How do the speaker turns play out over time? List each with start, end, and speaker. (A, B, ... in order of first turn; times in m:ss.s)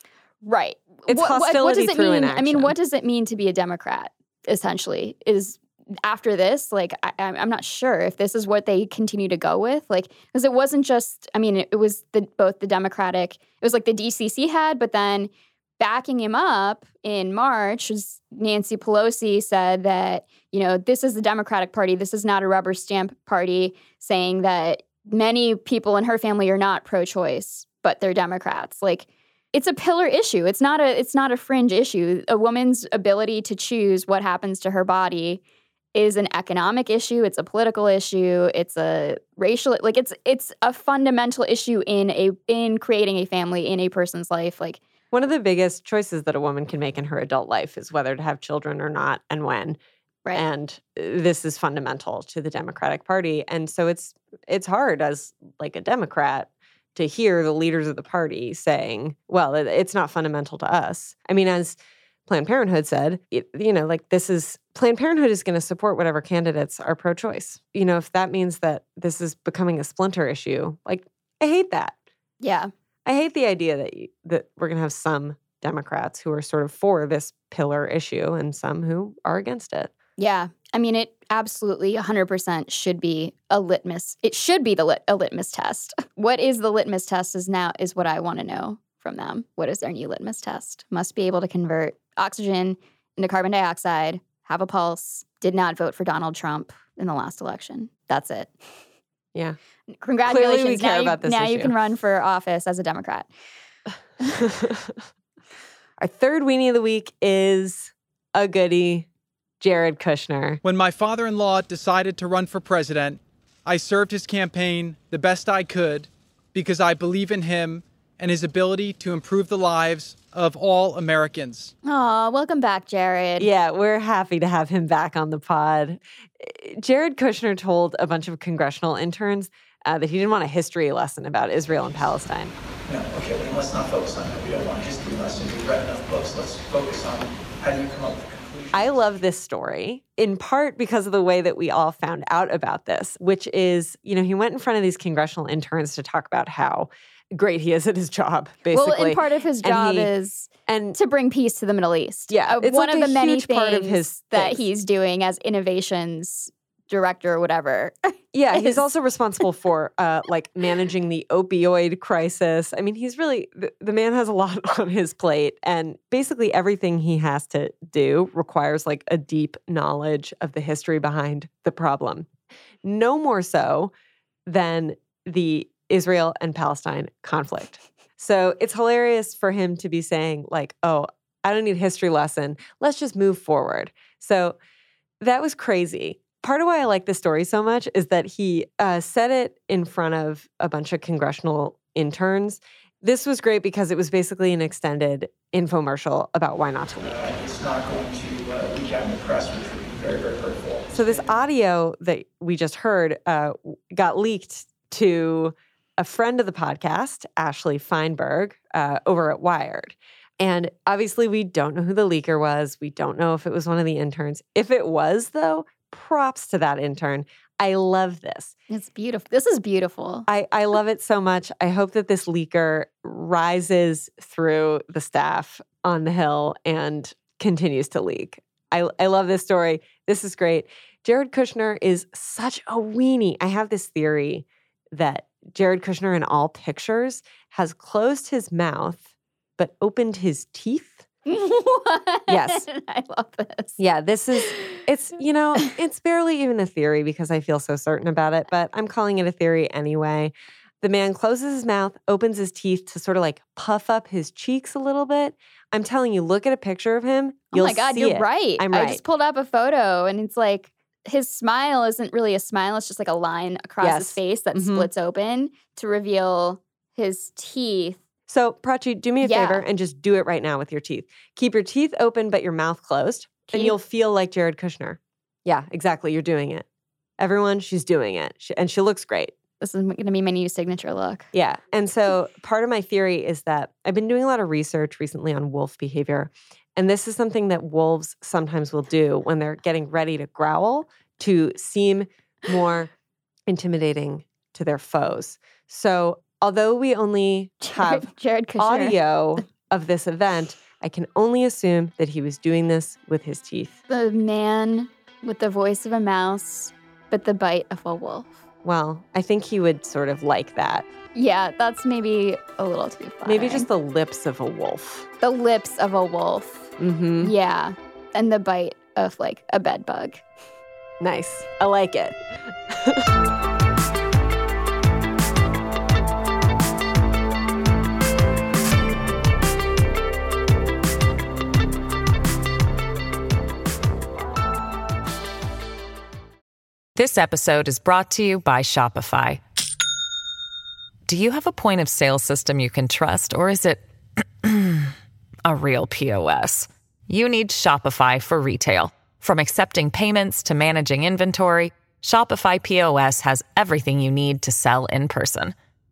0:00.4-0:35.4 A
0:01.1-0:02.7 B
0:35.9-0:44.8 A
0:45.1-0:49.8 B
0:50.3-1:11.9 B
1:12.4-1:12.7 A
1:13.0-1:19.9 B
1:20.2-1:38.5 A
1:39.9-1:43.3 A
1:40.2-1:41.7 B
1:44.4-1:44.9 B
1:46.0-1:49.1 B
1:49.6-1:50.6 B
1:50.6-2:01.7 C
2:01.8-2:03.5 A
2:03.4-2:12.5 B
2:12.9-2:19.0 D
2:18.7-2:30.1 B
2:28.7-2:38.8 A
2:30.7-2:31.0 B
2:32.3-2:34.6 B
2:38.3-2:52.3 B
2:52.8-2:53.9 B
2:54.4-3:04.6 B
3:05.2-3:17.2 B
3:17.0-3:21.3 D
3:20.9-3:38.5 B
3:38.7-3:40.2 A
3:40.3-4:01.1 B
4:01.2-4:03.8 A
4:02.3-4:02.6 B
4:03.8-4:19.0 B
4:04.4-4:04.8 A
4:17.5-4:28.0 A
4:23.8-4:24.9 B
4:28.3-4:36.6 B
4:29.2-4:29.6 A
4:37.2-4:39.3 B
4:39.6-4:41.3 A
4:41.3-4:52.9 B
4:53.5-4:58.1 B
4:57.6-4:59.4 A
4:58.6-5:03.8 B
5:03.9-5:08.3 A
5:08.6-5:10.8 B
5:11.1-5:13.6 A
5:13.2-5:15.1 B
5:15.2-5:16.6 A
5:16.8-5:17.3 B
5:17.2-5:20.2 A
5:21.0-5:22.2 B
5:22.7-5:23.0 B
5:37.0-5:39.4 E
5:41.0-5:43.8 E
5:44.4-5:44.9 E
5:45.4-5:55.5 E